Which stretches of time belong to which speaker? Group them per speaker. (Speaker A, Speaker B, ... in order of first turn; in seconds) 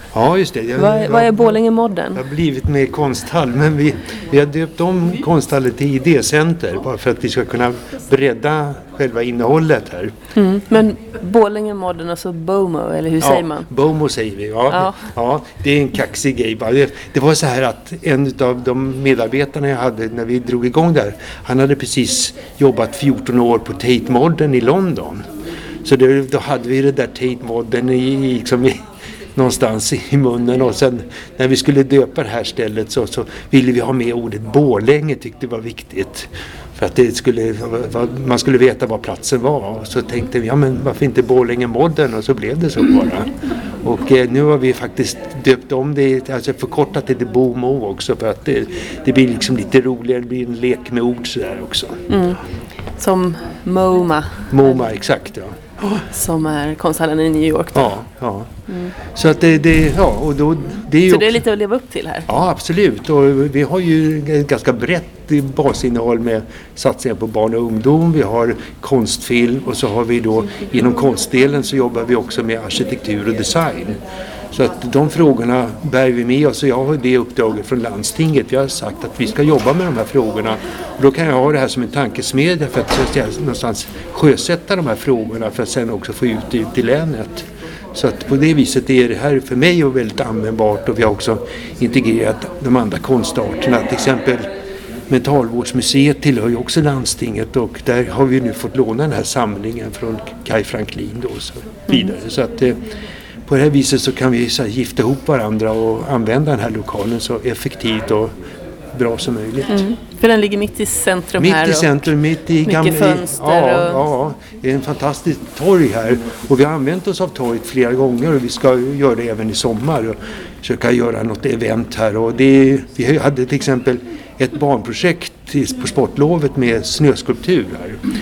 Speaker A: 0.1-1.6, 2.1-10.1, 13.2-25.2, 25.8-28.8, 29.4-43.3, 43.8-52.0, 54.5-56.0, 57.7-58.5, 59.1-61.4, 62.3-74.0, 74.5-94.5, 95.1-102.8, 103.5-108.3, 108.9-109.7, 111.4-128.0
Speaker B: 0.8-2.2, 10.3-13.7, 14.7-15.0, 52.1-52.4, 53.0-54.7, 56.1-57.9, 58.7-58.9, 61.1-62.3, 101.9-102.1, 109.7-112.1, 112.7-114.0